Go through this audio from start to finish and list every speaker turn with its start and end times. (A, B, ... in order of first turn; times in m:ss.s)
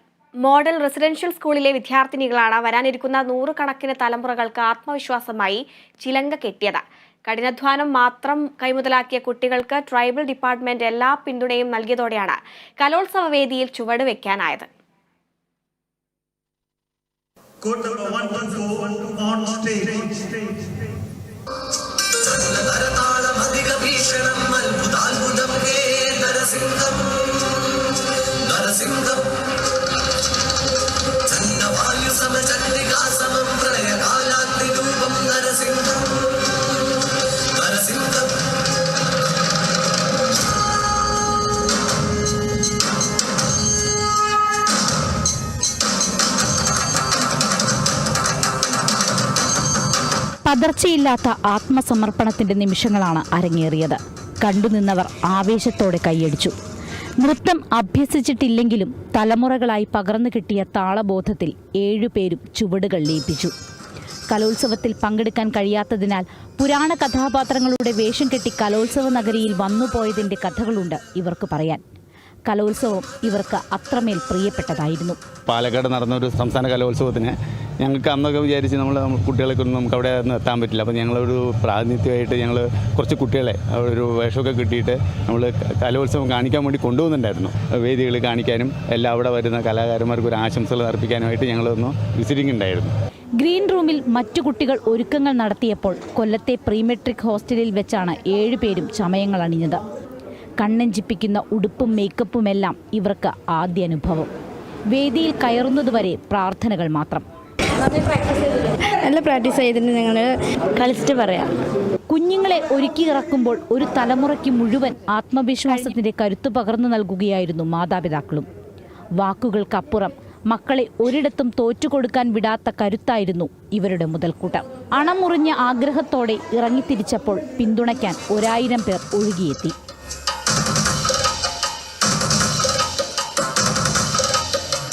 0:00.4-0:14.7 A
0:17.6-0:20.6 B
0:22.3-0:26.8 C
0:28.5-0:29.0 C
0:31.4-0:35.8 C
0:37.6-0:38.0 C
0:50.4-0:56.5 D
0:57.2-1:03.5 D
1:04.3-1:11.8 D
1:12.5-1:15.2 D
1:15.5-1:32.9 E
1:33.4-1:39.8 D
1:40.6-1:44.3 D
1:44.9-1:47.2 D
1:47.8-1:48.3 F
1:48.9-1:51.6 F
1:52.1-1:58.5 D
1:59.2-2:09.7 D